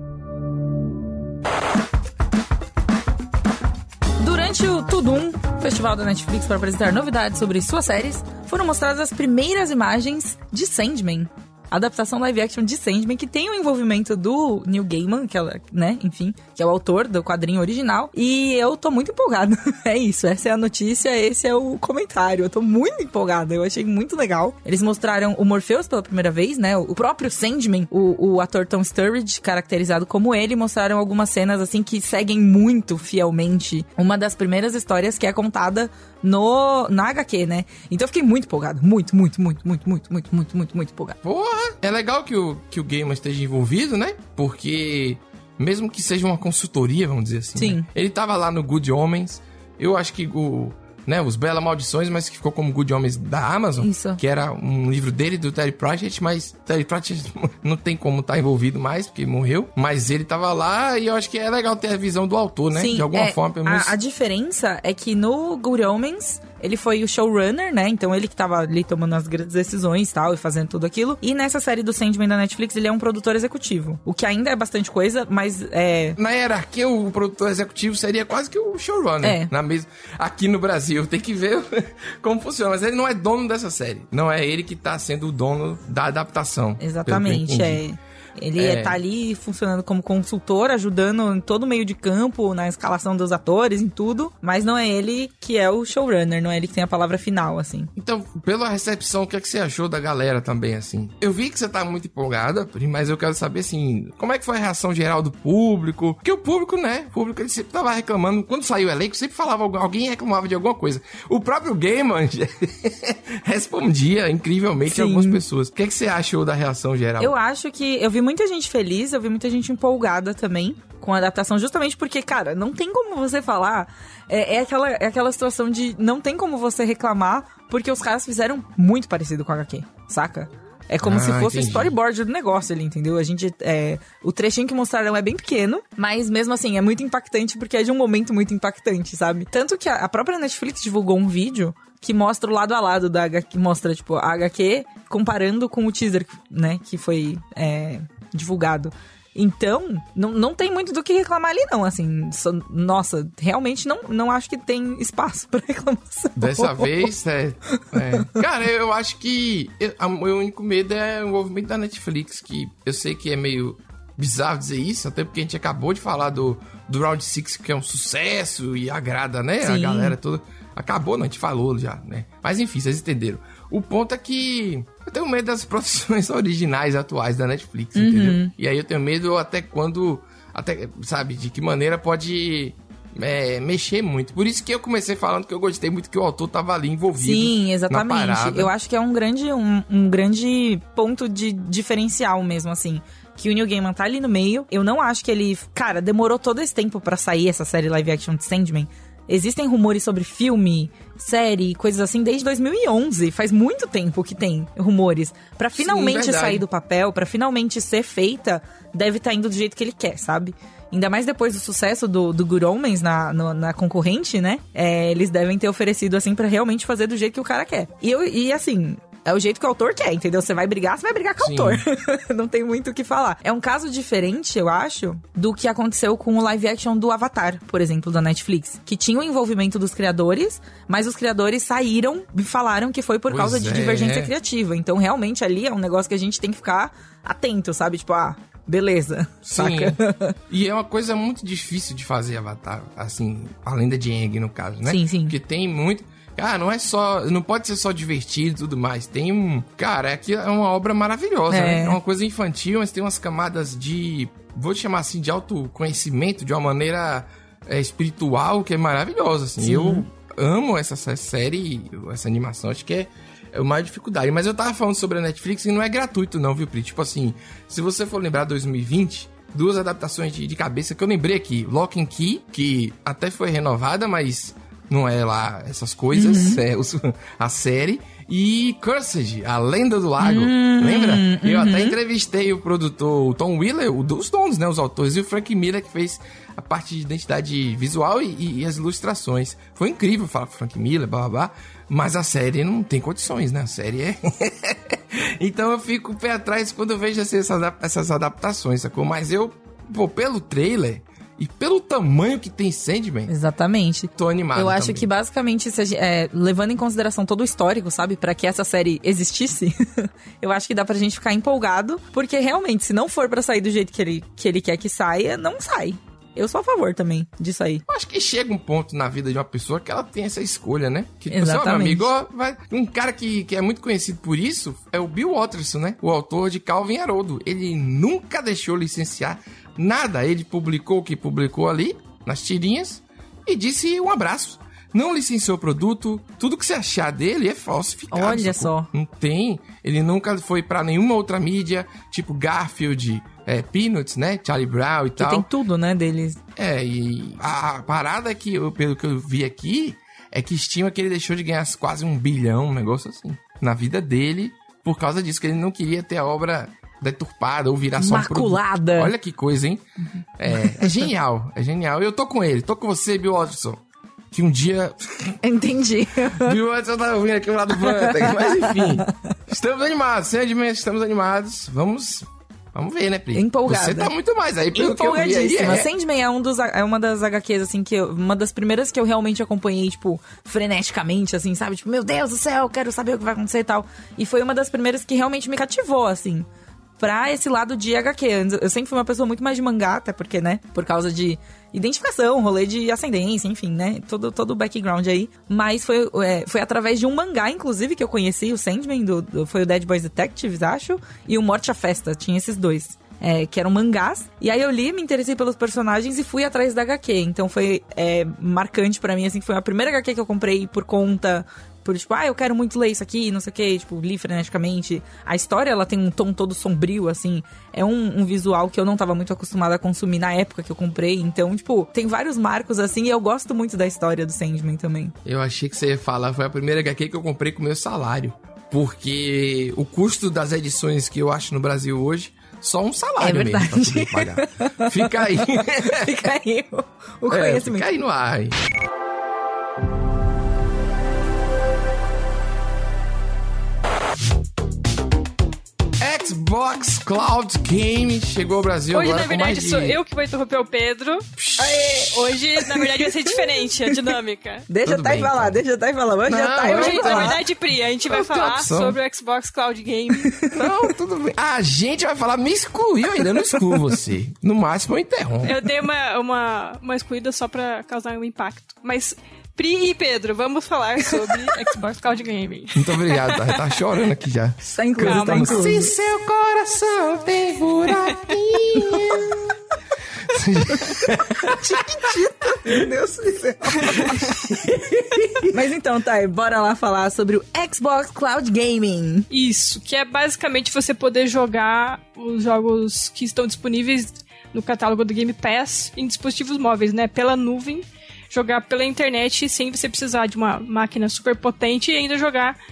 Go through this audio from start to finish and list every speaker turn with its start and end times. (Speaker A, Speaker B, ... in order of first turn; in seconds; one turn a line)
Speaker A: 4.2-41.2
Speaker B: 41.2-63.9
Speaker A: 47.6-47.9
Speaker A: 53.8-54.2
Speaker A: 62.7-76.2
Speaker B: 76.2-87.8
Speaker A: 79.2-79.5
Speaker A: 86.8-97.9
Speaker B: 88.6-89.0
Speaker B: 98.0-117.3
Speaker A: 114.8-115.4
Speaker A: 117.2-157.1
Speaker B: 131.0-131.9
Speaker B: 156.3-188.7
Speaker A: 169.6-170.2
Speaker A: 177.9-178.5
Speaker A: 187.2-240.4
Speaker B: 205.8-206.6
Speaker B: 221.4-221.8
Speaker B: 233.3-234.3
Speaker B: 239.4-303.3
Speaker A: 244.8-245.3
Speaker A: 251.5-252.0
Speaker A: 259.6-260.0
Speaker A: 276.1-276.6
Speaker A: 280.2-281.9
Speaker A: 303.3-317.8
Speaker B: 304.1-305.1
Speaker B: 317.9-345.5
Speaker A: 321.3-322.1
Speaker A: 338.1-338.9
Speaker A: 345.2-346.4
Speaker B: 346.6-359.8
Speaker A: 358.0-359.1
Speaker B: 360.4-365.4
Speaker A: 365.4-366.6
Speaker B: 366.4-375.9
Speaker A: 367.9-369.1
Speaker A: 373.3-374.1
Speaker A: 374.7-386.4
Speaker A: 387.0-425.1
Speaker B: 425.2-436.3
Speaker A: 433.2-435.2
Speaker A: 435.8-437.9
Speaker B: 437.3-438.5
Speaker B: 446.0-450.0
Speaker C: 448.9-451.3
Speaker B: 451.4-452.3
Speaker A: 451.6-452.2
Speaker C: 452.0-454.7
Speaker A: 454.7-457.4
Speaker B: 454.8-455.6
Speaker B: 456.2-457.4
Speaker C: 456.6-460.5
Speaker B: 458.0-459.0
Speaker A: 460.4-460.7
Speaker B: 460.5-465.6
Speaker C: 465.4-473.6
Speaker B: 472.8-479.6
Speaker A: 474.7-475.9
Speaker C: 475.0-475.9
Speaker B: 480.3-482.1
Speaker A: 481.0-484.5
Speaker B: 483.9-485.5
Speaker A: 485.5-489.3
Speaker C: 489.3-502.6